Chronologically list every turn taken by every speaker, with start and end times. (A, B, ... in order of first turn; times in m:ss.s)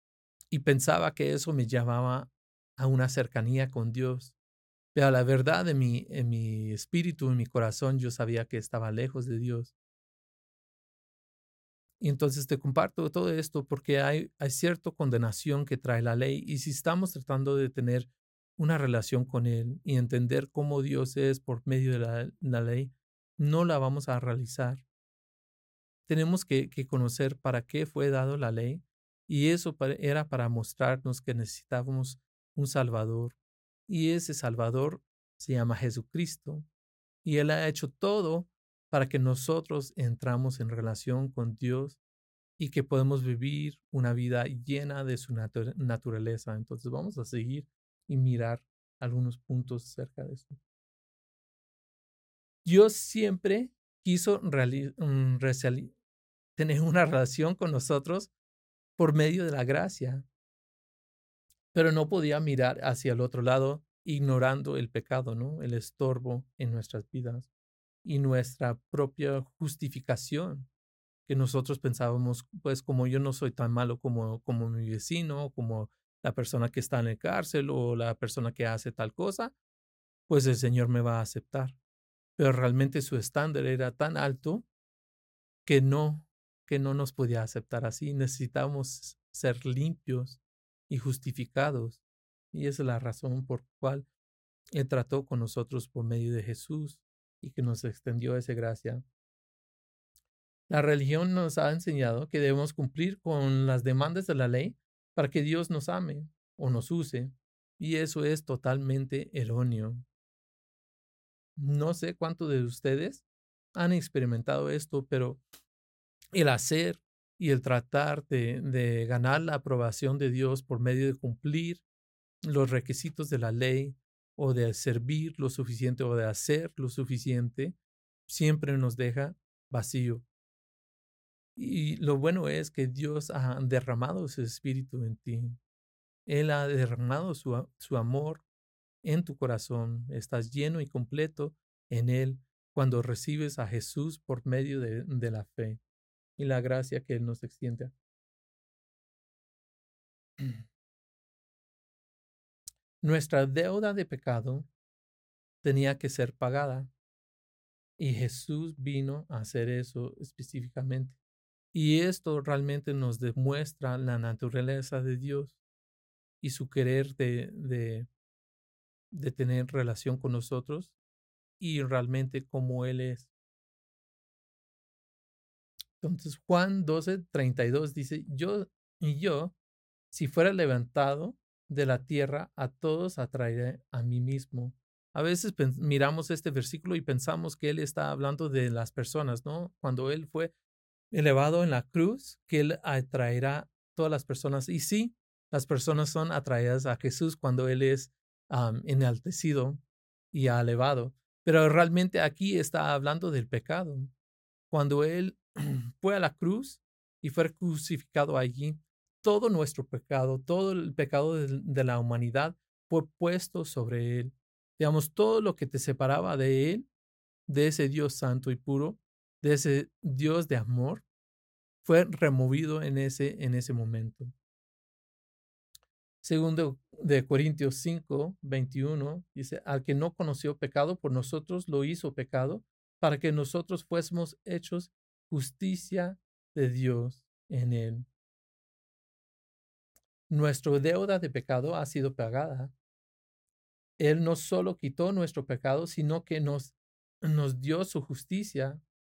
0:00.5-0:04.4 A
0:04.9-0:09.7 A
0:12.0-0:24.8 A
0:26.1-0:33.4 A
0:33.9-0:36.7 A
0:37.2-0:42.0 A
0:42.6-0:50.6 A
0:52.6-0:55.9 A
0:56.6-0:58.3 A
0:59.0-1:00.2 A
1:01.7-1:07.5 A
1:08.0-1:10.7 A
1:11.2-1:19.5 A
1:20.3-1:21.8 A
1:22.4-1:24.7 A
1:25.6-1:32.0 A
1:32.5-1:34.1 A
1:34.7-1:39.0 A
1:40.7-1:50.0 A
1:51.6-1:53.2 A
1:53.8-1:55.4 A
1:56.3-2:01.8 A
2:02.5-2:07.8 A
2:08.3-2:10.2 A
2:11.6-2:15.6 A
2:16.3-2:18.4 A
2:19.0-2:25.8 A
2:26.4-2:27.9 A
2:33.0-2:34.7 A
2:35.6-2:36.9 A
2:38.0-2:41.2 A
2:41.7-2:45.6 A
2:46.4-2:48.1 A
2:49.1-2:50.9 A
2:51.6-2:53.3 A
2:56.0-2:59.6 A
3:00.1-3:10.5 A
3:11.1-3:24.1 A
3:24.7-3:36.9 A
3:37.5-3:41.0 A
3:41.8-3:44.3 A
3:46.2-3:58.1 A
4:00.3-4:02.7 A
4:04.0-4:08.8 A